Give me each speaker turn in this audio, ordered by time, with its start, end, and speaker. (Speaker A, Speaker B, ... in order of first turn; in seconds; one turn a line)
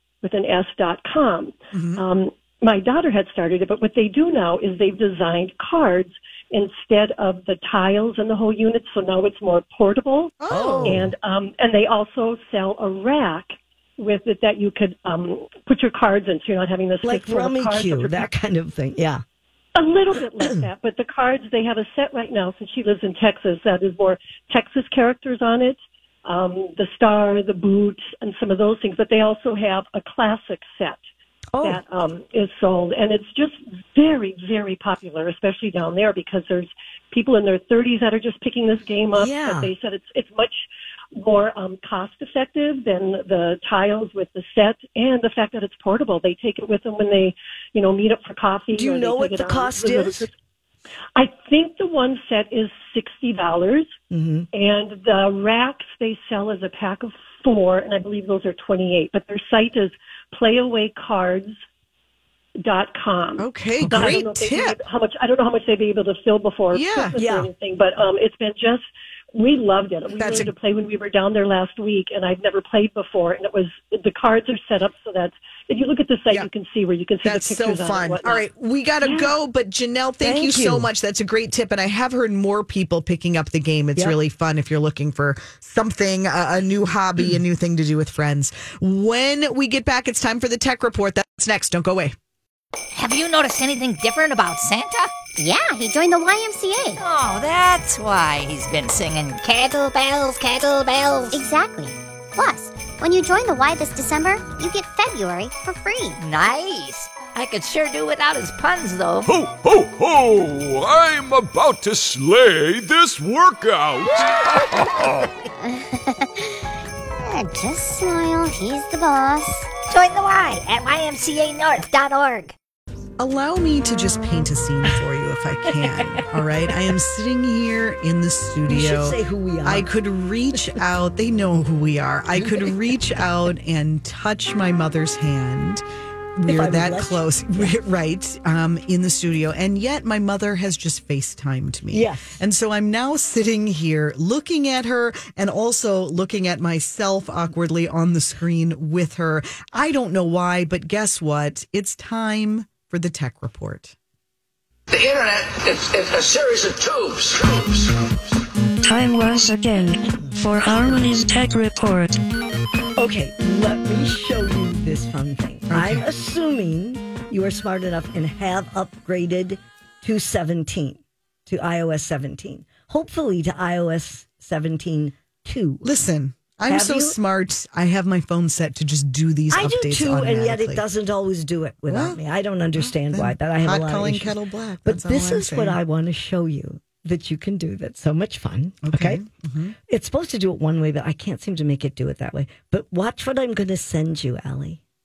Speaker A: 0.2-18.3
Speaker B: 1.7-2.0
Speaker B: 10.4-11.0
Speaker C: 10.5-11.1
Speaker C: 17.0-19.2
Speaker A: 19.8-31.0
Speaker C: 31.5-31.8
Speaker A: 31.6-50.3
Speaker C: 39.1-39.7
Speaker C: 48.7-50.3
Speaker A: 51.1-53.9
Speaker C: 54.1-54.5
Speaker A: 54.5-61.6
Speaker A: 62.6-78.4
Speaker B: 63.4-64.8
Speaker C: 63.8-64.2
Speaker B: 66.7-67.1
Speaker C: 67.2-67.5
Speaker B: 70.2-70.5
Speaker B: 77.2-92.1
Speaker C: 80.2-80.9
Speaker D: 92.9-95.2
Speaker E: 95.4-97.0
Speaker D: 96.9-101.4
Speaker E: 101.3-106.2
Speaker D: 106.2-109.3
Speaker F: 109.3-115.3
Speaker E: 117.2-119.8
Speaker D: 119.8-122.5
Speaker B: 123.2-135.8
Speaker C: 128.7-129.8
Speaker B: 136.3-153.9
Speaker C: 136.5-137.7
Speaker C: 141.9-142.4
Speaker G: 154.9-158.2
Speaker H: 158.8-162.1
Speaker C: 163.0-175.8
Speaker B: 165.7-166.0
Speaker B: 175.8-180.8
Speaker C: 176.7-177.2
Speaker C: 179.5-184.3
Speaker B: 181.9-182.2
Speaker B: 182.8-185.8
Speaker C: 184.8-189.2
Speaker B: 188.8-189.8
Speaker C: 189.9-194.8